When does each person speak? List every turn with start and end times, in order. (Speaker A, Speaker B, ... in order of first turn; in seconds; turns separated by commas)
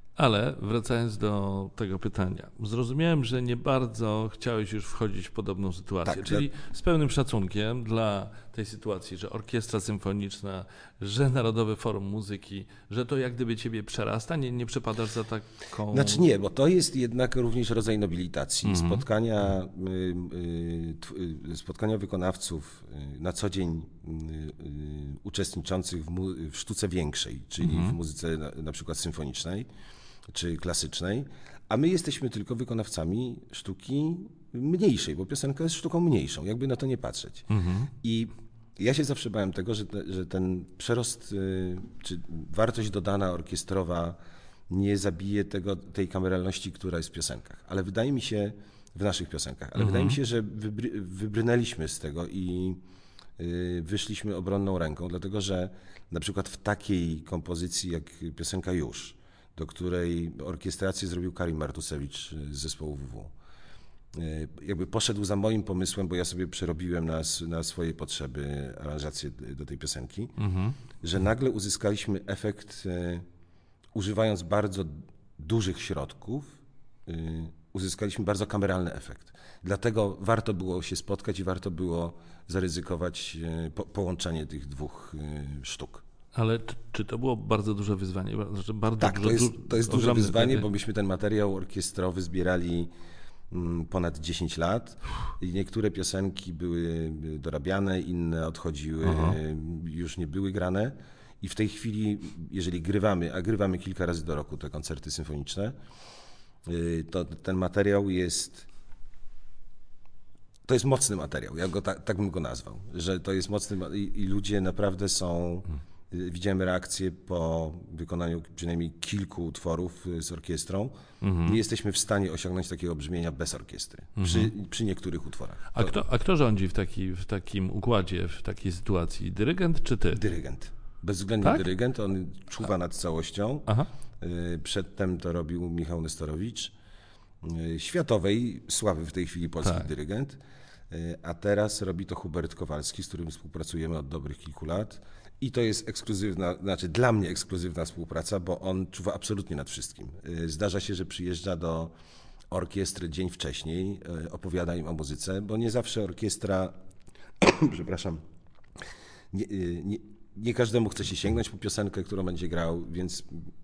Speaker A: 0.2-16.2, Speaker B: 6.0-6.5, Speaker B: 15.9-29.7, Speaker A: 18.6-19.0, Speaker A: 27.6-28.0, Speaker B: 30.3-52.8, Speaker A: 37.5-37.9, Speaker A: 49.8-50.2, Speaker B: 53.4-63.3, Speaker B: 64.1-70.3, Speaker A: 70.4-70.8, Speaker B: 71.0-73.2, Speaker B: 73.9-86.0, Speaker A: 86.3-90.7, Speaker B: 89.0-92.9, Speaker B: 93.5-105.8, Speaker A: 99.0-99.4, Speaker B: 106.7-108.7, Speaker B: 110.7-126.0, Speaker A: 121.2-121.6, Speaker A: 124.2-124.5, Speaker A: 125.7-130.2, Speaker B: 130.1-133.7, Speaker A: 131.4-131.7, Speaker B: 134.2-136.7, Speaker B: 137.4-151.9, Speaker A: 139.6-139.9, Speaker B: 152.5-156.8, Speaker B: 157.4-158.2, Speaker B: 159.3-163.5